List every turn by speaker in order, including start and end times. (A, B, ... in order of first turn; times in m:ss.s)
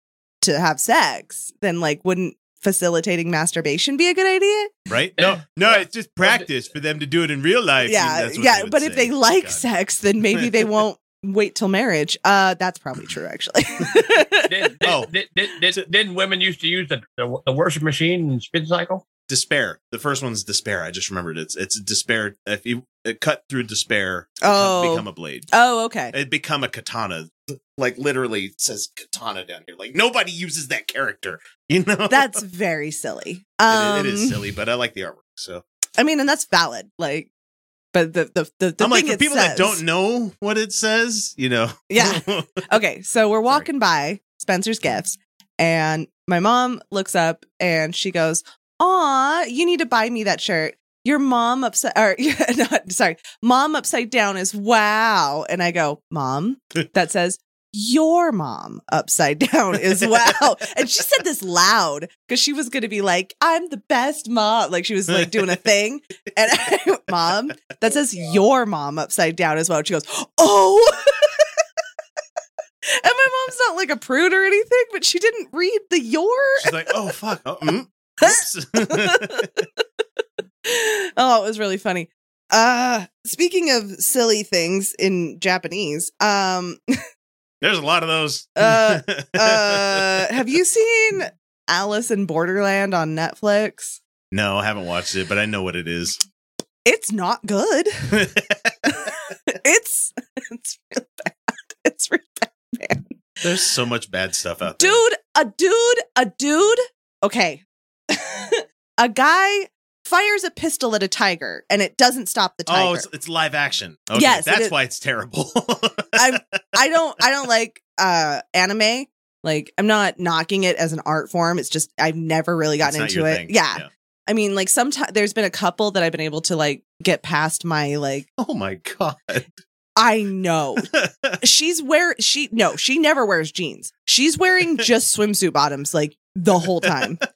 0:00.4-0:04.8 A
0:04.9-0:09.6 B
0:05.2-0:06.5 C
0:07.8-0:14.6 A
0:10.3-0:10.7 B
0:14.5-0:19.0 C
0:14.8-0:15.1 B
0:19.3-0:25.5 B
0:24.4-0:26.1 A
0:26.1-0:32.4 B
0:32.1-0:34.4 A
0:33.7-0:35.6 B
0:36.0-0:37.3 A
0:37.9-0:39.8 A
0:38.8-0:42.6 B
0:41.9-1:11.5 A
1:05.1-1:05.5 B
1:12.8-1:17.0 A
1:16.6-1:19.6 B
1:18.2-1:19.8 A
1:20.6-1:26.8 A
1:27.6-1:30.4 B
1:28.6-1:34.0 A
1:34.3-1:36.2 B
1:36.8-1:38.3 A
1:38.1-1:38.9 B
1:38.9-1:43.1 A
1:43.4-1:45.0 B
1:44.8-1:53.1 A
1:52.7-1:56.6 B
1:54.1-1:54.7 A
1:56.1-2:08.3 A
2:02.8-2:03.9 B
2:08.4-2:09.5 B
2:10.0-2:17.2 A
2:10.9-2:11.4 B
2:16.7-2:17.2 B